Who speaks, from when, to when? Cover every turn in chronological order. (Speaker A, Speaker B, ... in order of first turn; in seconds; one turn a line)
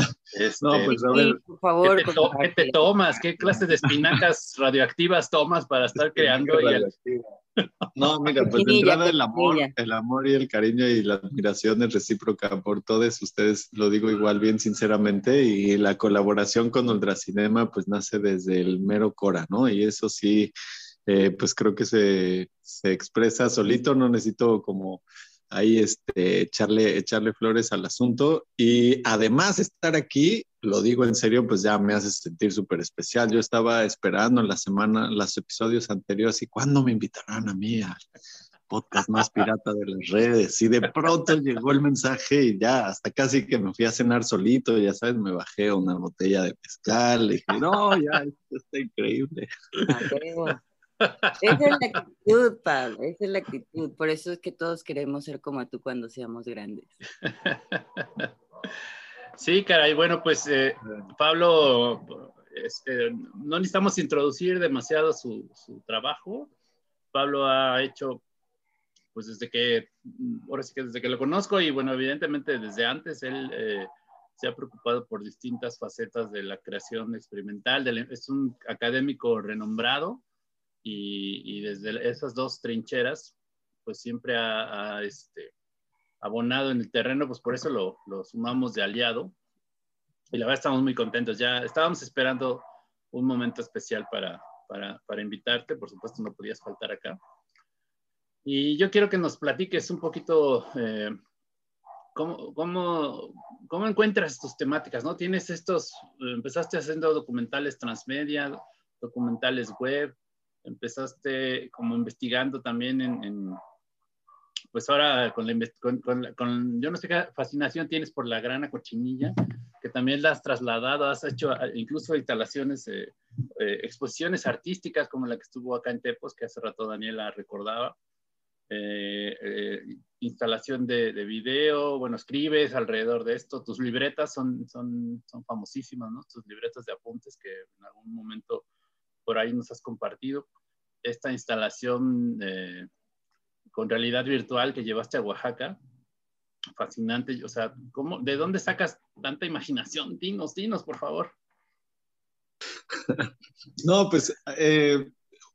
Speaker A: 0.3-1.0
Speaker B: 0.6-1.4
Speaker C: 0.9-2.8
Speaker A: 1.8-6.9
Speaker B: 6.0-7.2
Speaker B: 7.9-20.5
Speaker C: 8.4-9.7
Speaker B: 21.1-38.0
Speaker B: 38.7-49.5
Speaker C: 49.9-50.6
Speaker A: 51.0-51.6
Speaker C: 51.4-57.0
Speaker A: 57.2-58.3
Speaker A: 59.4-66.5
Speaker A: 67.1-68.2
Speaker A: 69.1-80.2
Speaker A: 80.8-83.3
Speaker A: 83.9-85.5
Speaker A: 86.2-89.3
Speaker A: 90.3-97.2
Speaker A: 98.5-101.2
Speaker A: 102.2-110.1
Speaker A: 110.7-113.6
Speaker A: 114.7-128.0
Speaker A: 128.7-138.7
Speaker A: 139.3-140.5
Speaker A: 141.0-142.9
Speaker A: 143.7-145.8
Speaker A: 146.8-151.3
Speaker B: 153.8-155.1